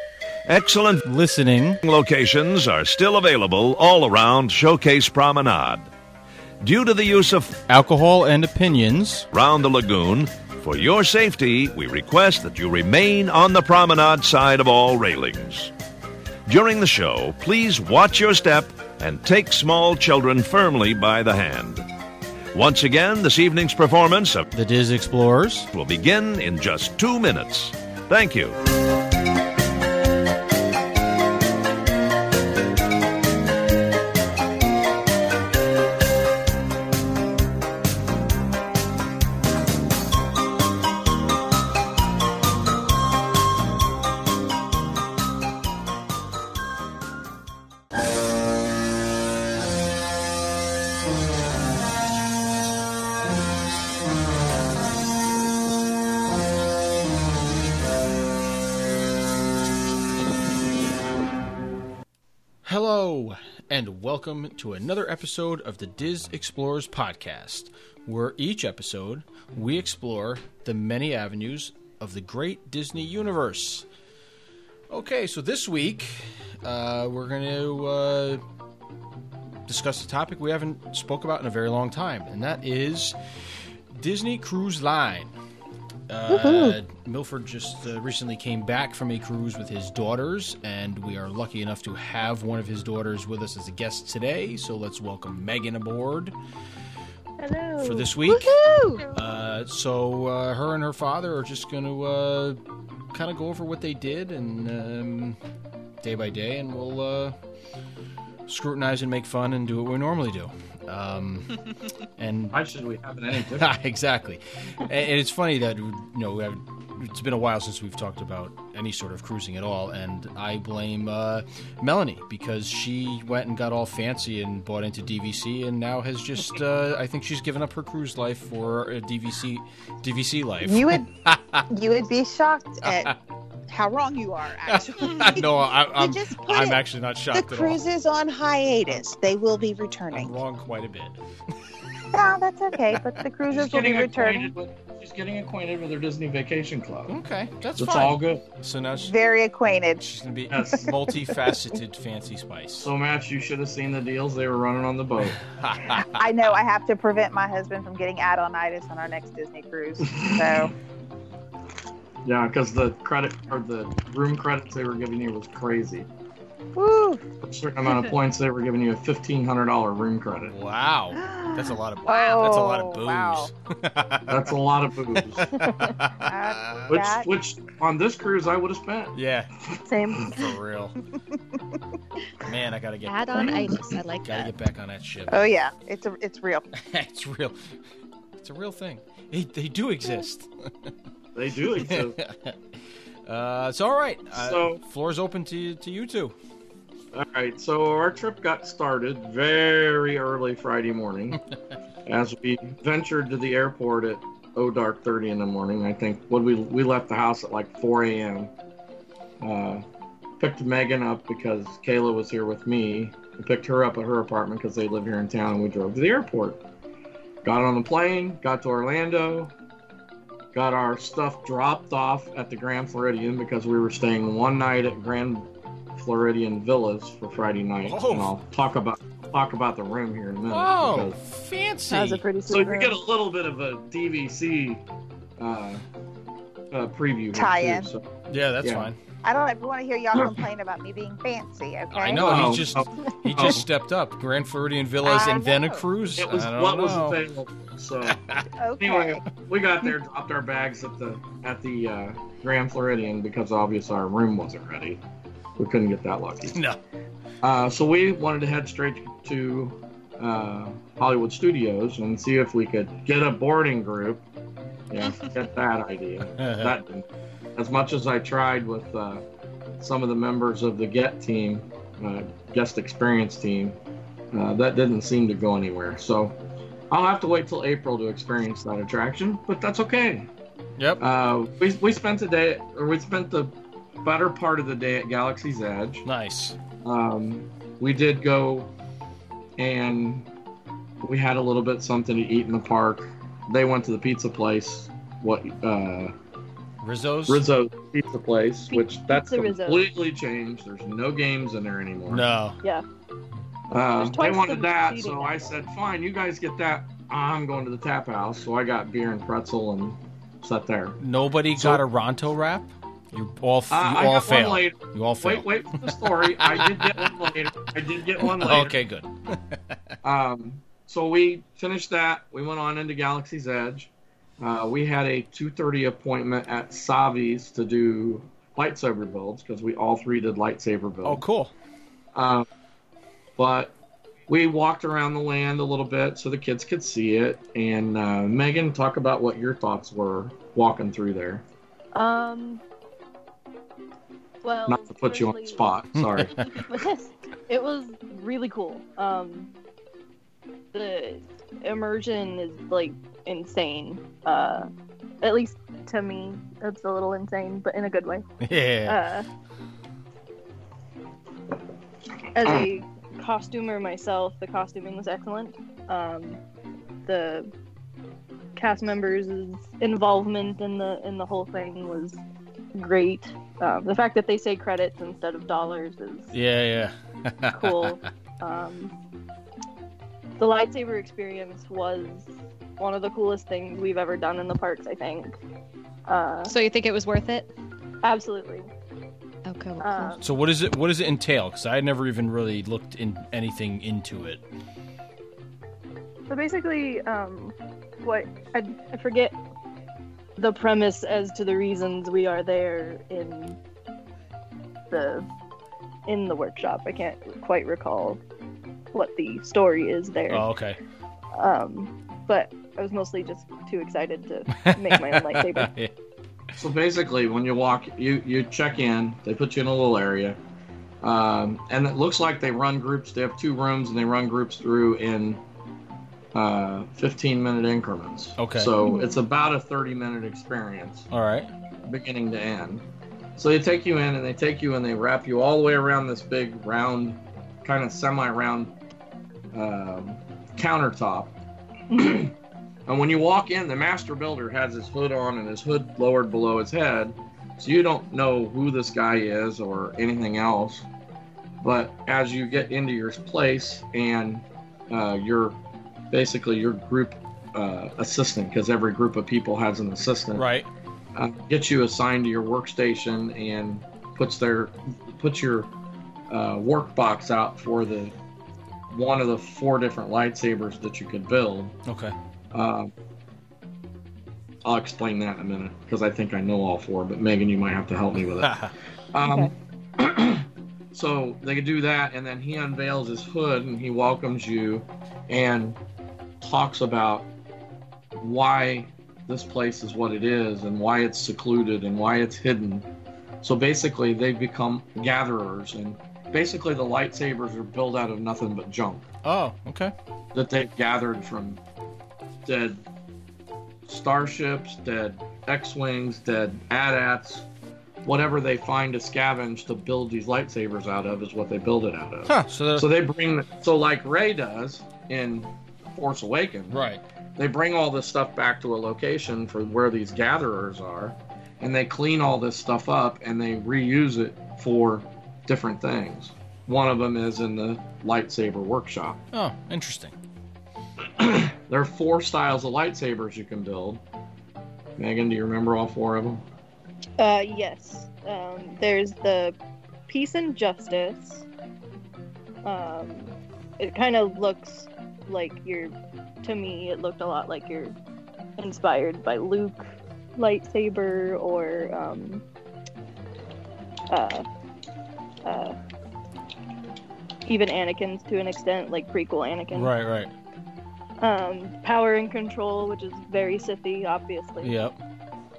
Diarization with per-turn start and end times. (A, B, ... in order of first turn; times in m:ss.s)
0:00.4-0:01.0 A
0:01.0-0:01.8 B
0:01.8-0:05.9 A
0:06.6-0:07.6 A
0:07.7-0:09.3 B
0:09.3-0:15.7 A
0:16.5-0:21.8 A
0:22.5-0:24.4 A
0:24.5-0:25.7 B
0:25.7-0:28.6 A
1:02.6-1:13.8 B
1:14.9-1:18.4 B
1:19.7-1:23.2 B
1:23.9-1:25.3 B
1:26.1-1:36.3 B
1:26.3-1:26.8 C
1:37.4-1:38.1 D
1:37.8-1:38.5 B
1:38.2-1:39.0 E
1:39.0-1:42.6 B
1:43.1-1:45.4 B
1:46.0-1:47.3 B
1:48.5-1:51.6 B
1:52.2-1:52.6 B
1:52.5-1:53.7 F
1:53.4-2:11.6 B
2:10.6-2:11.1 C
2:11.7-2:13.1 C
2:12.9-2:13.1 B
2:13.7-2:16.8 C
2:14.7-2:17.8 B
2:17.3-2:20.4 C
2:20.1-2:21.2 B
2:22.1-2:24.5 C
2:22.8-2:23.8 B
2:23.6-2:27.2 F
2:27.1-2:29.2 B
2:27.8-2:28.4 F
2:29.0-2:30.1 C
2:30.0-2:32.9 B
2:30.5-2:31.0 F
2:31.1-2:31.6 C
2:32.8-2:35.4 F
2:35.4-2:36.2 B
2:36.0-2:40.7 C
2:40.1-2:40.7 F
2:42.2-2:46.1 F
2:46.7-2:47.2 C
2:47.4-2:50.5 F
2:50.5-2:54.5 B
2:51.1-2:53.5 C
2:54.3-2:55.5 F
2:55.1-2:56.9 B
2:55.5-2:56.0 D
2:56.2-2:57.3 C
2:56.9-2:59.1 F
2:59.1-2:59.5 B
2:59.7-3:00.3 F
2:59.8-3:00.3 D
3:00.3-3:01.0 B
3:02.4-3:05.4 B
3:03.0-3:04.5 E
3:05.3-3:06.6 C
3:06.7-3:07.6 B
3:08.4-3:10.5 B
3:11.3-3:12.2 F
3:11.7-3:12.6 B
3:13.2-3:16.3 B
3:14.3-3:14.8 F
3:17.1-3:21.4 F
3:22.0-3:28.5 F
3:29.4-3:29.8 F
3:30.4-3:36.6 F
3:37.4-3:39.5 F
3:40.5-3:51.2 F
3:47.8-3:48.3 B
3:50.5-3:52.2 B
3:51.9-3:53.0 D
3:52.5-3:54.8 F
3:55.4-3:55.8 F
3:56.7-3:58.0 F
3:57.3-3:57.9 C
3:58.3-3:59.0 B
3:58.6-3:58.9 F
3:59.2-4:02.6 C
4:01.9-4:07.2 B
4:02.2-4:03.6 F
4:05.0-4:05.8 C
4:06.2-4:08.2 F
4:08.0-4:08.5 B
4:08.6-4:09.2 C
4:08.8-4:15.0 F
4:15.6-4:16.6 F
4:17.4-4:24.2 F
4:24.9-4:27.0 F
4:26.4-4:26.8 B
4:27.6-4:29.2 F
4:29.8-4:33.8 F
4:34.3-4:36.4 F
4:36.9-4:40.3 F
4:40.8-4:41.0 B
4:41.0-4:43.5 F
4:44.0-4:46.0 F
4:46.0-4:46.6 B
4:46.8-4:48.7 F
4:49.6-4:50.3 F
4:51.0-4:56.1 F
4:56.8-4:57.4 B
4:57.3-5:02.2 F
4:58.7-4:59.9 D
5:02.1-5:02.6 B
5:03.7-5:11.0 F
5:04.0-5:05.5 D
5:11.0-5:17.1 B
5:11.6-5:11.8 F
5:13.7-5:18.8 F
5:18.2-5:19.6 B
5:20.0-5:31.2 F
5:31.0-5:31.5 B
5:32.1-5:32.5 F
5:33.4-5:33.7 F
5:34.3-5:41.4 F
5:41.9-5:42.6 D
5:44.4-5:45.7 D
5:44.7-5:46.5 F
5:45.9-5:46.3 B
5:46.4-5:49.5 D
5:50.7-5:54.7 D
5:55.2-5:58.2 D
5:58.4-5:59.0 B
5:58.8-5:59.3 D
6:02.3-6:06.4 D
6:07.0-6:07.5 D
6:08.6-6:12.2 D
6:12.7-6:16.3 D
6:16.3-6:18.0 B
6:17.5-6:18.9 D
6:20.4-6:25.4 D
6:26.1-6:26.5 D
6:26.4-6:27.5 E
6:28.0-6:28.6 D
6:29.4-6:30.2 E
6:29.8-6:30.2 D
6:30.2-6:34.4 B
6:36.3-6:39.4 D
6:40.4-6:43.6 D
6:44.9-6:45.3 D
6:46.1-6:48.2 D
6:48.9-6:50.4 D
6:50.3-6:50.8 B
6:51.3-6:55.7 D
6:54.6-6:55.9 B
6:56.6-7:00.4 F
7:01.0-7:05.4 F
7:06.3-7:11.0 F
7:08.4-7:08.7 B
7:08.8-7:09.2 D
7:11.1-7:11.5 B
7:11.8-7:12.8 F
7:13.4-7:18.7 F
7:19.5-7:21.3 F
7:21.9-7:22.3 F
7:22.9-7:30.8 F
7:31.6-7:35.6 F
7:36.1-7:40.4 F
7:40.3-7:40.7 B
7:41.1-7:45.7 F
7:46.3-7:48.1 F
7:48.9-7:51.8 F
7:51.8-7:52.1 B
7:52.5-7:52.9 F
7:54.6-7:58.6 F
7:58.4-7:58.7 B
7:59.1-8:05.8 F
7:59.2-7:59.5 D
8:06.4-8:07.3 F
8:08.2-8:12.8 F
8:13.4-8:19.1 F
8:19.2-8:19.9 B
8:20.3-8:21.6 F
8:22.4-8:22.8 F
8:23.9-8:27.4 F
8:28.0-8:36.8 F
8:32.3-8:32.9 B
8:36.7-8:37.0 B
8:37.4-8:49.2 F
8:49.3-8:50.1 B
8:51.2-8:54.0 F
8:55.0-8:56.4 F
8:57.2-8:59.6 D
9:00.1-9:01.4 D
9:02.6-9:07.9 D
9:08.6-9:12.4 D
9:14.1-9:14.4 D
9:15.4-9:15.8 D
9:17.4-9:19.9 D
9:19.7-9:20.3 B
9:21.2-9:24.7 D
9:24.6-9:25.0 B